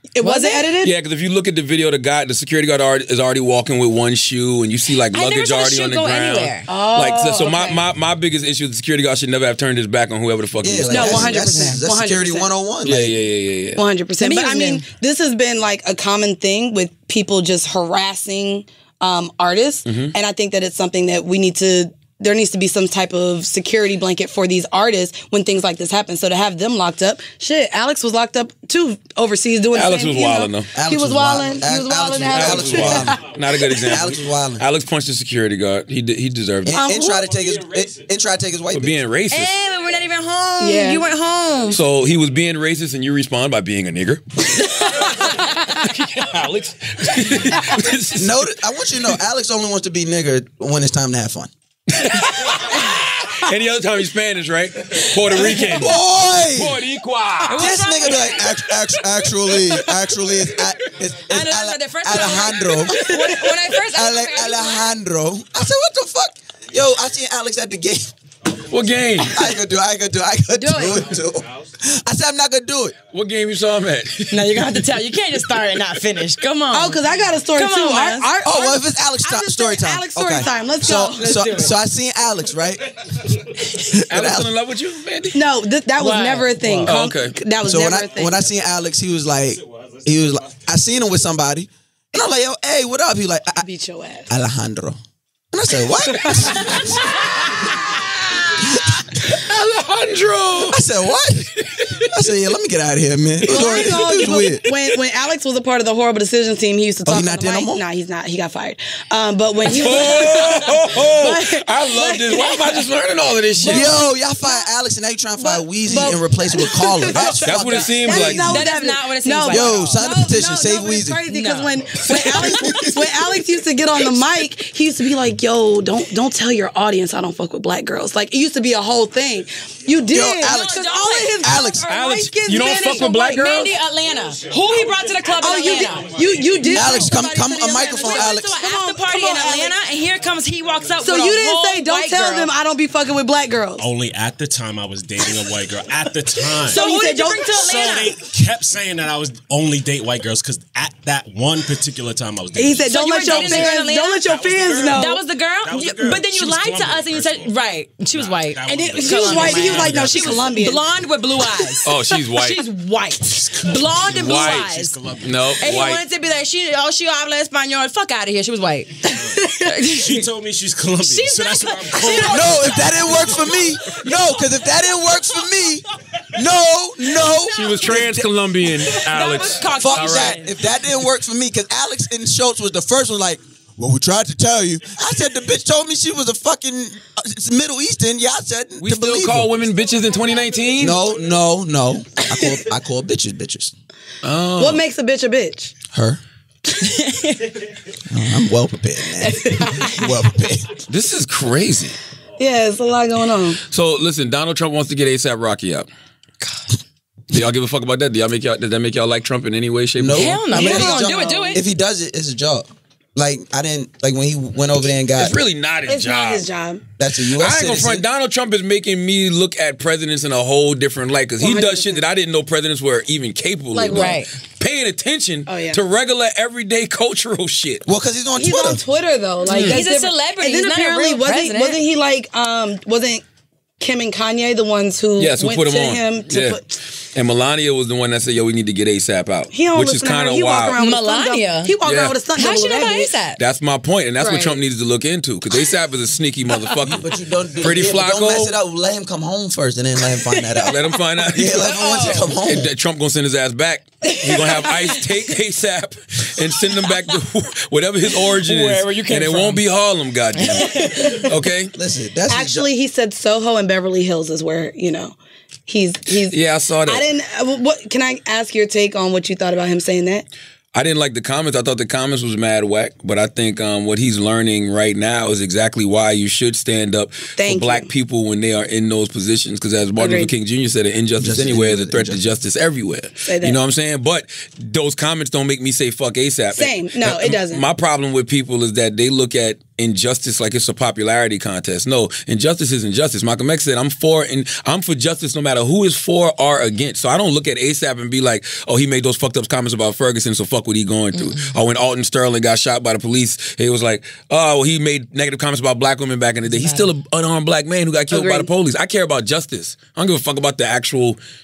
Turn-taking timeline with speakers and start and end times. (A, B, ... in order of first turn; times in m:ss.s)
0:00.2-0:00.9 A
0:00.2-0:00.7 B
0:00.8-0:11.4 C
0:05.1-0:06.7 B
0:06.7-0:07.8 A
0:10.6-0:13.2 D
0:10.9-0:12.5 A
0:11.4-0:11.7 B
0:12.8-0:13.8 C
0:13.8-0:33.3 A
0:14.2-0:14.8 B
0:19.9-0:20.1 C
0:29.7-0:30.7 C
0:30.7-0:33.2 D
0:32.3-0:36.8 C
0:32.4-0:33.3 E
0:33.8-0:34.6 D
0:36.6-0:39.0 D
0:36.7-0:37.3 A
0:37.1-0:38.1 E
0:38.7-0:39.5 C
0:39.3-0:41.8 B
0:40.6-0:41.0 A
0:41.7-0:48.4 C
0:44.6-0:45.8 B
0:48.1-0:51.5 D
0:51.9-0:57.8 C
0:55.4-0:56.8 D
0:57.5-0:58.4 B
0:57.6-1:03.2 D
1:01.3-1:04.9 B
1:03.8-1:08.1 D
1:08.7-1:09.5 C
1:09.2-1:13.0 D
1:10.5-1:11.1 B
1:13.1-1:14.9 C
1:14.3-1:17.0 B
1:15.5-1:16.0 C
1:16.7-1:21.7 A
1:17.5-1:18.3 B
1:18.4-1:24.5 D
1:24.1-1:25.4 C
1:25.3-1:28.4 A
1:26.0-1:27.0 B
1:26.8-1:27.4 C
1:27.6-1:33.7 D
1:29.6-1:30.6 E
1:33.6-1:34.3 A
1:34.3-1:35.0 D
1:35.5-1:37.2 D
1:36.2-1:40.8 C
1:38.6-1:39.1 D
1:40.7-1:41.5 D
1:41.5-1:42.1 C
1:42.0-1:44.7 D
1:43.4-1:45.0 C
1:43.5-1:52.8 A
1:47.0-1:47.8 D
1:49.6-1:54.0 C
1:53.6-1:54.7 A
1:53.6-1:58.6 D
1:55.4-2:13.4 A
1:57.4-1:58.6 C
1:58.2-2:00.0 B
1:59.5-2:01.2 D
2:01.3-2:02.9 B
2:02.1-2:03.2 D
2:10.1-2:10.9 D
2:10.4-2:11.4 B
2:11.4-2:11.8 D
2:11.9-2:13.7 C
2:13.0-2:16.8 B
2:15.4-2:19.8 A
2:15.7-2:16.7 E
2:16.6-2:18.6 D
2:18.0-2:22.5 B
2:21.0-2:23.8 A
2:23.8-2:37.5 E
2:26.5-2:27.7 A
2:26.7-2:28.2 B
2:32.5-2:35.2 A
2:32.9-2:34.3 B
2:34.9-2:45.0 B
2:38.1-2:40.7 E
2:38.7-2:40.9 A
2:41.8-2:42.6 C
2:43.4-2:45.7 E
2:44.1-2:46.0 C
2:45.6-2:49.1 B
2:49.1-2:49.8 A
2:49.3-2:54.5 E
2:49.7-2:50.3 B
2:51.0-2:53.4 B
2:52.2-2:58.3 D
2:57.5-3:00.4 C
2:59.0-3:00.5 B
2:59.8-3:09.6 D
3:08.8-3:11.0 C
3:10.8-3:13.7 D
3:14.2-3:14.8 C
3:14.6-3:15.7 A
3:15.9-3:16.2 D
3:16.8-3:17.6 B
3:18.1-3:20.8 D
3:19.3-3:19.9 A
3:20.9-3:22.0 C
3:22.4-3:23.6 A
3:23.7-3:25.9 C
3:27.3-3:30.4 C
3:30.0-3:35.4 D
3:30.1-3:31.6 B
3:30.5-3:31.6 A
3:35.2-3:36.5 C
3:35.9-3:36.8 A
3:37.0-3:38.0 D
3:37.4-3:47.8 C
3:41.4-3:42.0 A
3:43.7-3:44.2 A
3:43.9-3:44.3 B
3:45.5-3:45.8 A
3:47.8-3:48.8 D
3:48.4-3:53.2 A
3:49.5-3:49.8 C
3:49.5-3:51.8 B
3:53.8-3:56.6 A
3:55.2-4:00.8 C
3:59.5-4:03.1 A
4:00.8-4:01.8 B
4:01.8-4:02.2 C
4:02.4-4:03.4 B
4:03.4-4:07.1 C
4:04.2-4:04.6 A
4:06.8-4:12.7 D
4:07.6-4:08.5 C
4:10.6-4:21.7 C
4:11.7-4:12.2 A
4:14.0-4:15.0 A
4:18.4-4:19.6 B
4:18.5-4:19.6 E
4:20.4-4:21.3 B
4:20.7-4:21.3 A
4:21.7-4:22.7 D
4:22.3-4:25.2 A
4:25.7-4:30.2 A
4:26.1-4:27.1 C
4:30.7-5:11.2 C
4:37.4-4:37.9 A
4:40.0-4:40.3 A
4:41.2-4:42.2 D
4:43.3-4:43.6 A
4:46.6-4:47.6 A
5:01.1-5:01.5 B
5:06.5-5:06.9 B
5:08.1-5:08.5 A